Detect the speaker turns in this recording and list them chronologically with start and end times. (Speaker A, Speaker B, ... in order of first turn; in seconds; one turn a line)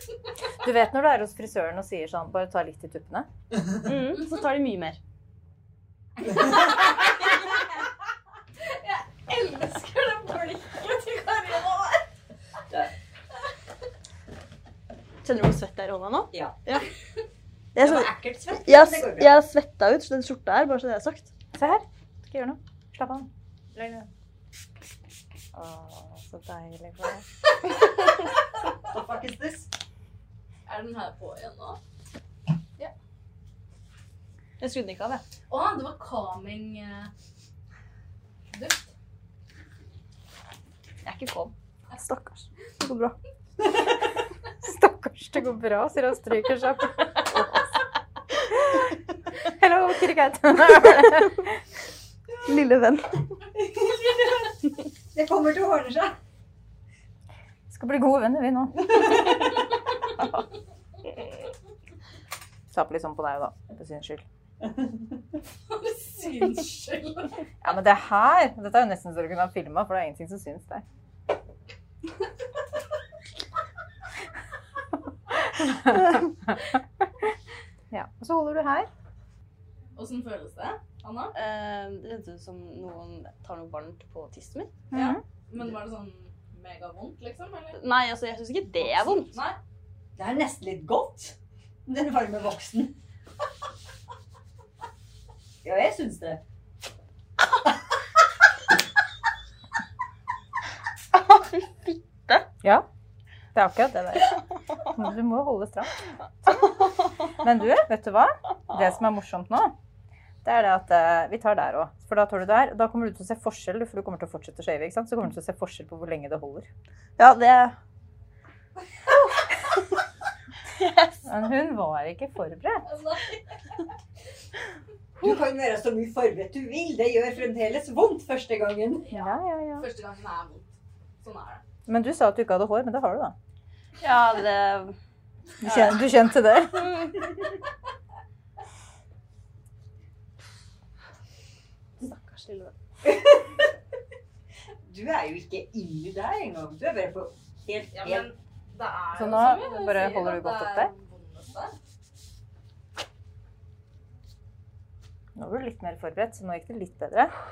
Speaker A: 0.6-3.3
Speaker B: 3.8-5.0
Speaker C: 6.4-7.0
Speaker C: 8.7-12.1
Speaker B: 15.2-16.9
Speaker B: 17.8-18.1
Speaker D: 17.8-19.3
Speaker B: 18.6-21.3
Speaker A: 21.6-24.1
Speaker A: 25.5-27.2
Speaker D: 28.9-29.7
Speaker C: 30.7-31.8
Speaker B: 34.6-35.2
Speaker C: 35.5-37.1
Speaker C: 38.5-38.9
Speaker B: 41.0-43.1
Speaker A: 44.6-47.5
Speaker A: 49.4-51.5
Speaker B: 52.5-53.2
Speaker D: 53.6-54.5
Speaker D: 55.1-56.2
Speaker A: 57.7-59.1
Speaker A: 62.7-64.2
Speaker C: 65.7-67.3
Speaker A: 67.6-70.8
Speaker A: 75.6-76.6
Speaker A: 77.9-78.9
Speaker C: 80.0-81.3
Speaker B: 81.3-84.7
Speaker A: 84.9-85.2
Speaker C: 84.9-87.8
Speaker B: 87.8-89.4
Speaker C: 88.8-89.6
Speaker D: 90.2-92.9
Speaker D: 95.6-96.4
Speaker A: 103.5-106.7
Speaker A: 107.3-109.7
Speaker A: 110.4-116.7
Speaker B: 117.2-117.8
Speaker A: 121.3-122.9
Speaker C: 122.9-123.4
Speaker D: 125.2-129.1
Speaker C: 129.1-131.6
Speaker A: 129.1-129.9
Speaker A: 131.9-133.3
Speaker B: 134.0-134.9
Speaker A: 135.6-137.2
Speaker B: 135.7-136.0
Speaker B: 142.0-142.7
Speaker D: 144.8-148.3
Speaker C: 147.9-151.8
Speaker A: 149.1-150.9
Speaker A: 155.3-157.3